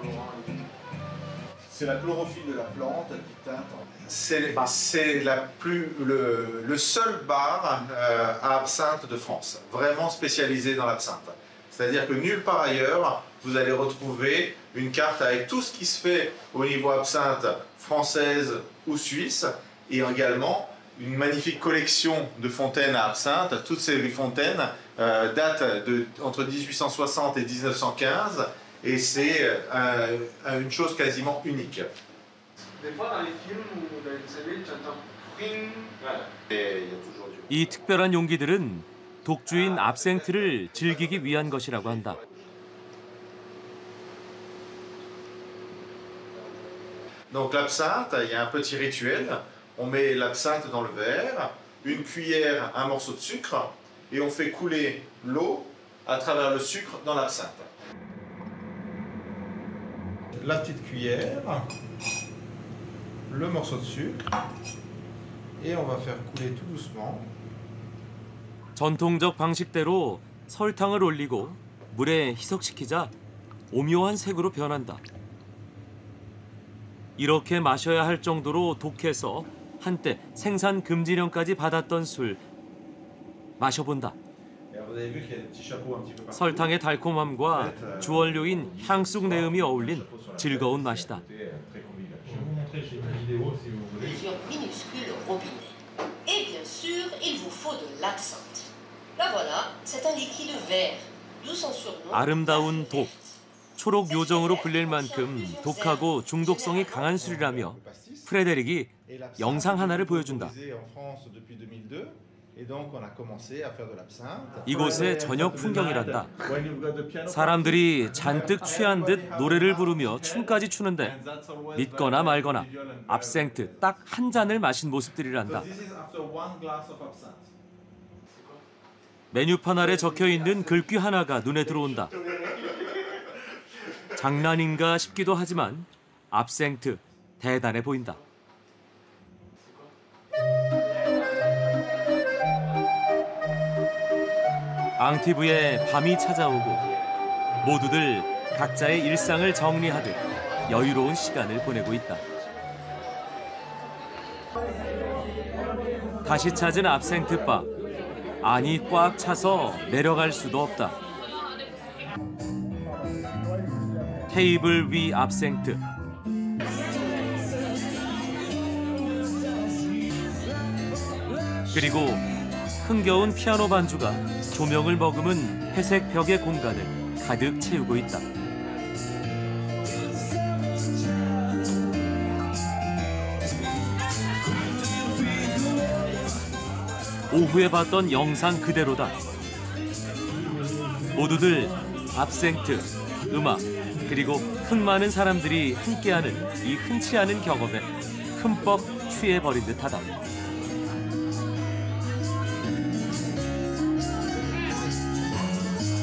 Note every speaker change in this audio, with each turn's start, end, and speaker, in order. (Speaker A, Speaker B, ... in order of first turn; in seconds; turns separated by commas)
Speaker A: 1.7-31.9, Speaker B: 37.5-42.2, Speaker A: 47.3-57.6, Speaker A: 60.4-61.6, Speaker A: 63.3-64.2, Speaker A: 65.6-67.3, Speaker B: 68.7-73.1, Speaker B: 73.7-75.0, Speaker B: 77.2-82.4, Speaker B: 83.6-84.2, Speaker A: 84.7-86.6, Speaker B: 86.3-91.2, Speaker A: 87.6-88.1, Speaker A: 89.2-92.6, Speaker C: 96.3-98.4, Speaker C: 99.2-100.7, Speaker B: 102.1-103.1, Speaker B: 103.8-110.5, Speaker A: 107.5-108.2, Speaker A: 109.1-115.5, Speaker B: 114.7-116.3, Speaker A: 116.5-123.9, Speaker B: 117.3-121.2, Speaker B: 121.7-125.7, Speaker A: 125.5-127.4, Speaker B: 129.3-132.1, Speaker B: 134.2-138.2, Speaker B: 145.0-146.8, Speaker B: 147.6-152.2, Speaker B: 156.2-157.7, Speaker B: 158.4-160.9, Speaker B: 164.3-165.8, Speaker B: 171.7-172.2, Speaker B: 172.8-178.2, Speaker B: 187.3-189.2, Speaker B: 191.1-200.2